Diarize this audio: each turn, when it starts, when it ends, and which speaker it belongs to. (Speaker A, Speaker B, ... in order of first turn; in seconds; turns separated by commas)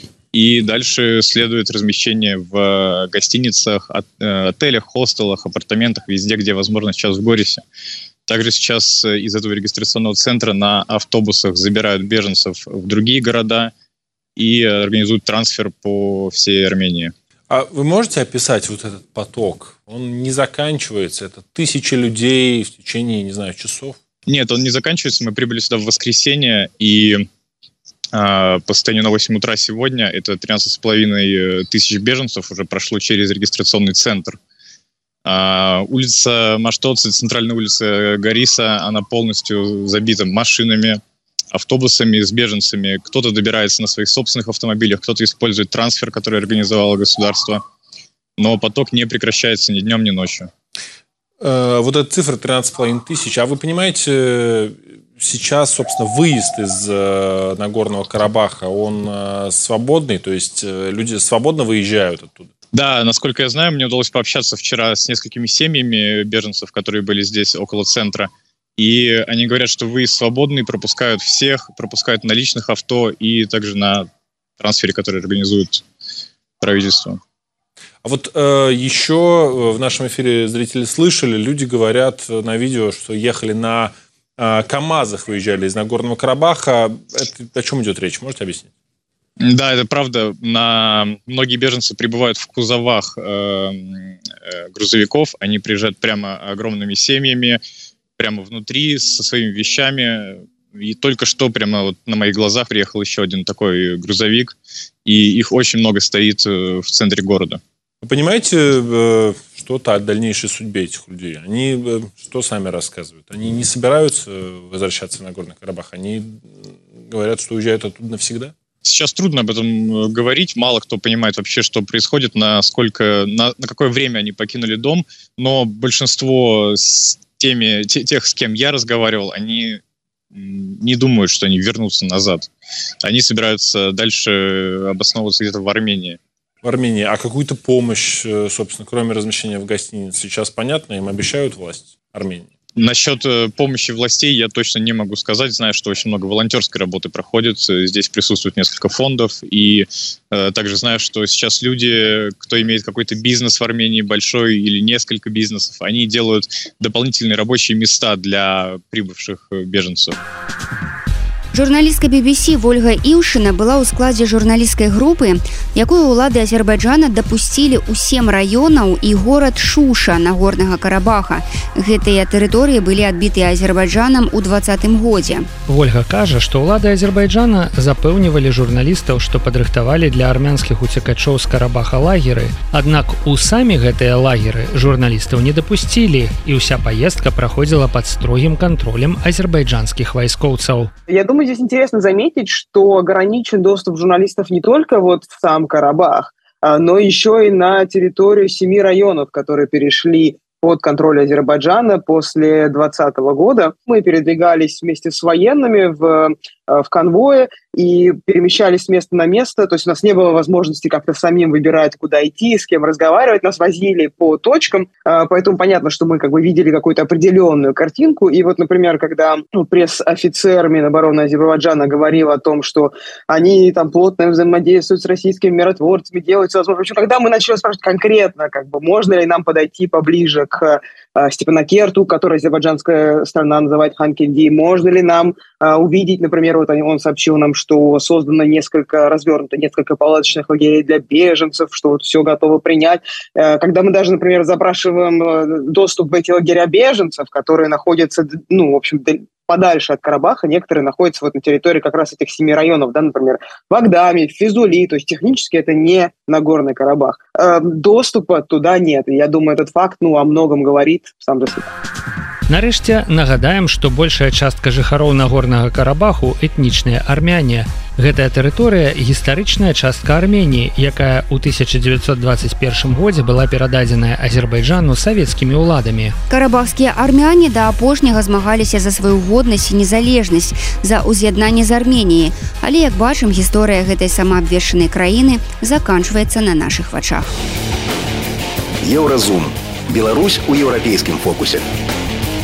Speaker A: 0.3-7.6, Speaker A: 8.3-13.7, Speaker A: 14.4-17.1, Speaker B: 17.5-24.0, Speaker A: 24.3-27.3, Speaker A: 28.1-34.4, Speaker A: 35.2-41.0, Speaker A: 41.5-47.6, Speaker A: 48.4-50.5, Speaker B: 51.4-62.5, Speaker A: 62.7-74.1, Speaker A: 74.6-75.8, Speaker A: 76.6-77.2, Speaker B: 78.0-88.7, Speaker A: 89.4-97.6, Speaker A: 98.2-104.5, Speaker A: 105.0-107.6, Speaker B: 108.0-118.5, Speaker A: 118.8-129.8, Speaker A: 130.3-132.5, Speaker A: 133.0-136.2, Speaker B: 136.6-142.5, Speaker A: 142.8-160.2, Speaker C: 161.5-175.5, Speaker D: 175.7-190.9, Speaker E: 191.1-261.7, Speaker D: 262.5-276.2, Speaker C: 276.3-287.3, Speaker F: 288.8-291.6